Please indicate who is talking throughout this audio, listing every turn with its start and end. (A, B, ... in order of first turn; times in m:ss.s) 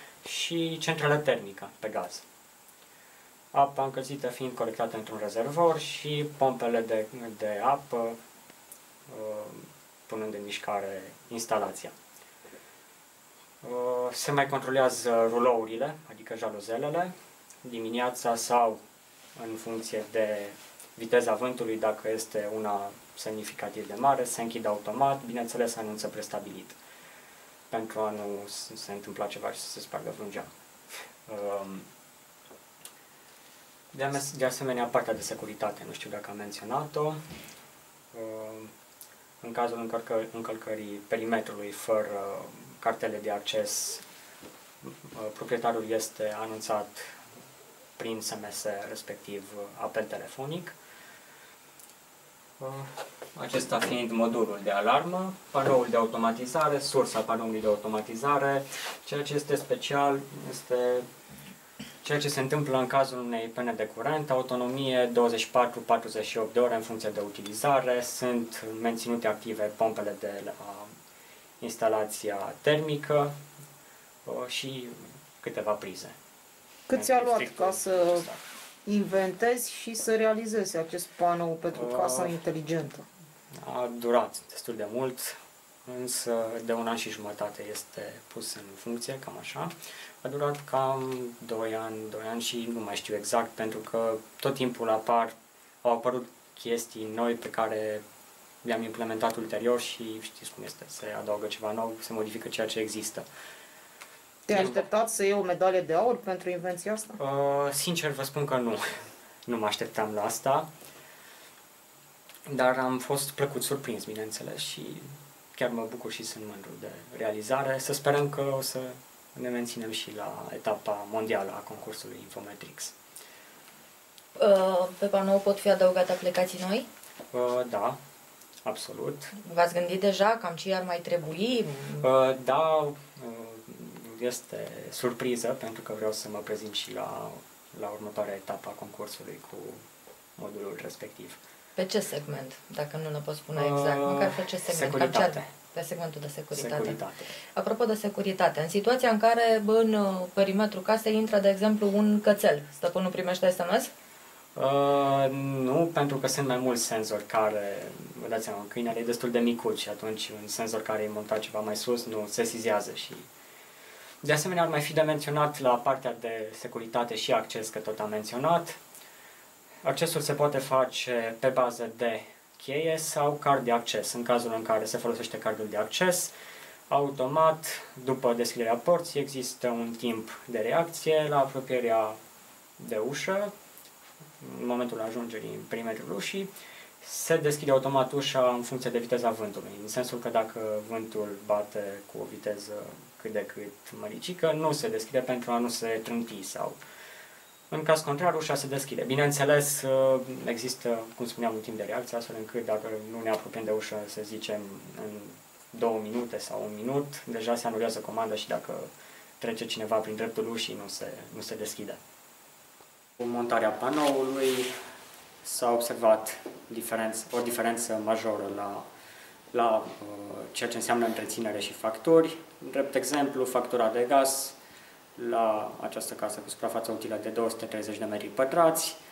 0:00.2-0:02.2 A
0:03.5-0:08.2 A
0:09.1-0:11.9 A
0:13.6-0:17.1 A
0:17.6-0:18.8 A
0:19.4-0:26.8 A
0:27.7-0:30.5 A
0:31.3-0:31.9 A
0:33.9-0:37.2 A
0:38.1-0:38.7 A
0:39.4-0:44.0 A
0:44.8-0:47.2 A
0:48.0-0:50.8 A
0:52.6-1:01.1 A
1:02.0-1:10.9 A
1:11.6-1:13.4 A
1:14.2-1:16.2 A
1:16.9-1:18.3 B
1:16.9-1:18.4 A
1:18.9-1:23.0 B
1:21.7-1:22.4 A
1:23.6-1:38.0 A
1:38.6-1:43.3 A
1:44.5-1:47.2 B
1:44.5-1:44.9 A
1:47.2-1:48.8 A
1:49.5-1:50.7 A
1:52.5-2:03.0 A
2:04.4-2:06.9 C
2:07.3-2:08.0 A
2:08.6-2:09.4 A
2:09.4-2:12.1 C
2:12.0-2:19.8 A
2:20.4-2:21.4 A
2:21.8-2:27.0 C
2:23.6-2:25.5 A
2:26.5-2:27.3 A
2:27.6-2:33.9 C
2:34.6-2:43.3 A
2:44.2-2:48.8 A
2:49.8-2:56.3 A
2:56.9-3:02.2 A
3:02.8-3:03.5 A
3:04.4-3:06.5 A
3:07.0-3:16.8 A
3:17.7-3:28.9 A
3:29.4-3:32.0 A
3:33.2-3:34.7 A
3:35.4-3:38.8 A
3:39.5-3:44.6 A
3:45.2-3:49.0 A